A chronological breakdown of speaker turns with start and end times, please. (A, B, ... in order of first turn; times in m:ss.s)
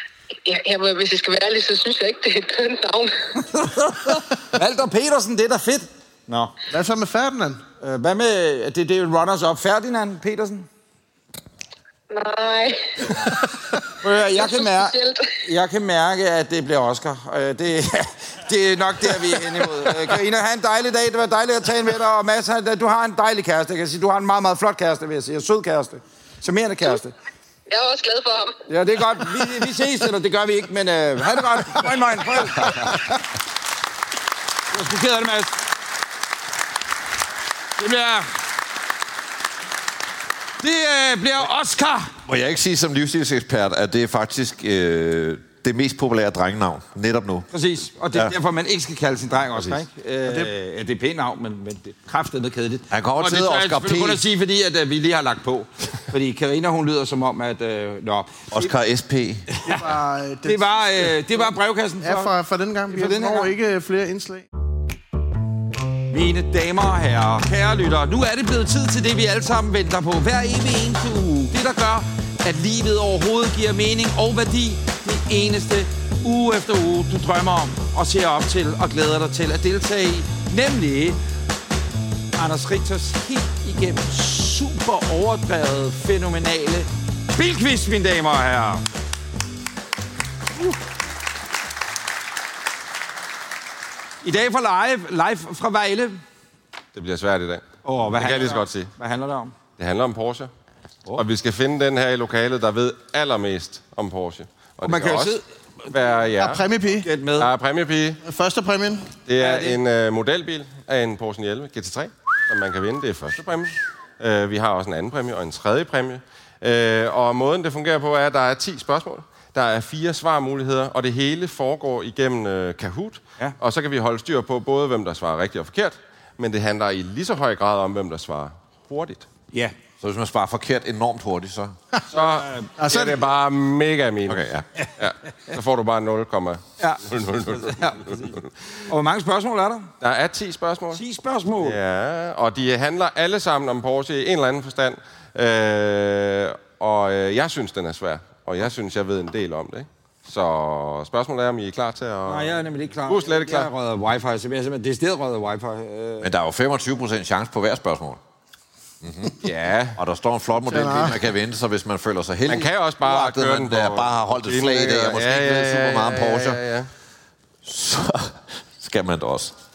0:00.4-0:03.1 A
0:03.4-0:06.5 B
0:06.7-0:07.6 C
0:07.8-0:10.7 B
0:12.1-0:12.8 A
0:14.0-0:27.1 B
0:14.3-0:15.3 A
0:27.7-0:28.6 A
0:28.7-0:33.0 B
0:34.7-0:35.5 B
0:37.8-0:38.3 B
0:40.6-0:42.1 B
0:42.2-0:47.5 D
0:47.5-0:58.7 B
0:50.2-0:50.5 C
0:52.9-0:54.2 D
0:58.5-0:59.5 D
0:59.6-1:01.4 C
1:00.4-1:02.3 B
1:02.0-1:04.5 C
1:02.9-1:03.5 B
1:06.1-1:21.2 B
1:22.4-1:28.8 B
1:34.2-1:36.2 B
1:36.9-1:38.9 E
1:37.8-1:39.5 B
1:39.8-1:40.5 E
1:41.1-1:45.4 E
1:44.8-1:45.9 B
1:45.9-1:46.6 E
1:46.4-1:47.1 C
1:47.0-1:47.5 B
1:47.4-1:48.2 E
1:48.2-1:49.1 C
1:49.2-2:09.3 E
1:49.4-1:49.8 B
2:10.0-2:11.7 D
2:12.1-2:14.4 E
2:12.1-2:12.7 B
2:12.8-2:13.3 C
2:14.3-2:14.6 D
2:15.0-2:18.5 E
2:16.8-2:18.4 B
2:18.9-2:19.9 B
2:20.0-2:21.0 E
2:20.9-2:21.8 B
2:21.6-2:33.7 E
2:32.2-2:36.3 B
2:36.2-2:38.2 D
2:39.0-2:39.4 D
2:39.4-2:40.0 E
2:40.0-2:46.6 D
2:40.6-2:41.2 C
2:42.5-2:46.9 E
2:47.6-2:49.5 D